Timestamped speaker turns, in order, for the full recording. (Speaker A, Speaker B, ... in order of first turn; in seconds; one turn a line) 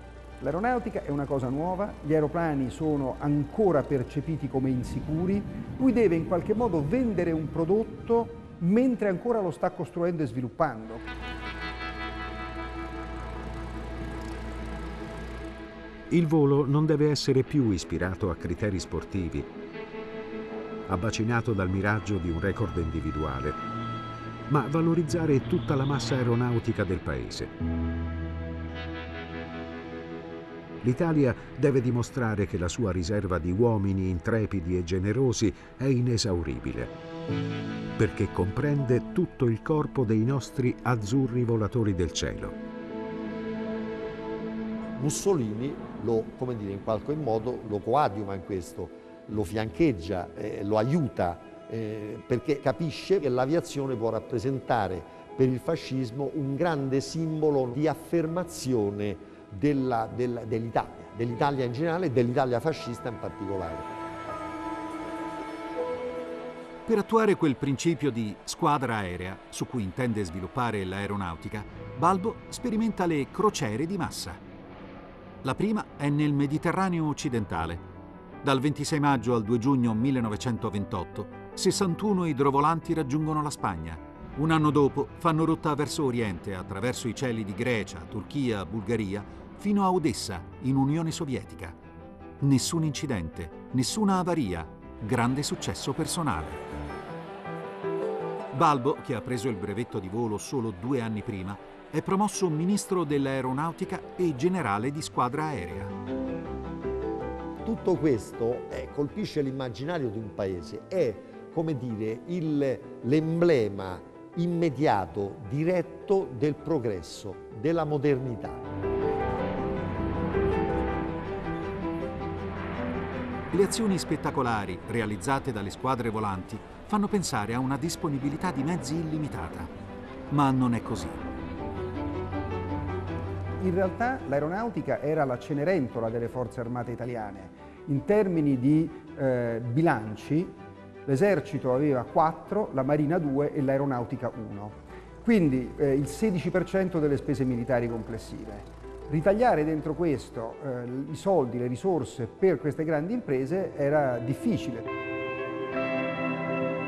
Speaker A: 0.4-11.1
Speaker B: 16.1-19.5
Speaker B: 20.9-23.6
Speaker B: 24.5-27.5
Speaker B: 30.8-36.9
Speaker B: 38.0-42.6
Speaker C: 45.0-64.0
Speaker D: 66.8-74.4
Speaker D: 75.4-77.8
Speaker D: 78.4-91.8
Speaker D: 92.4-96.6
Speaker D: 98.5-105.9
Speaker C: 107.6-118.7
Speaker D: 123.5-129.7
Speaker D: 130.3-131.2
Speaker A: 133.6-154.8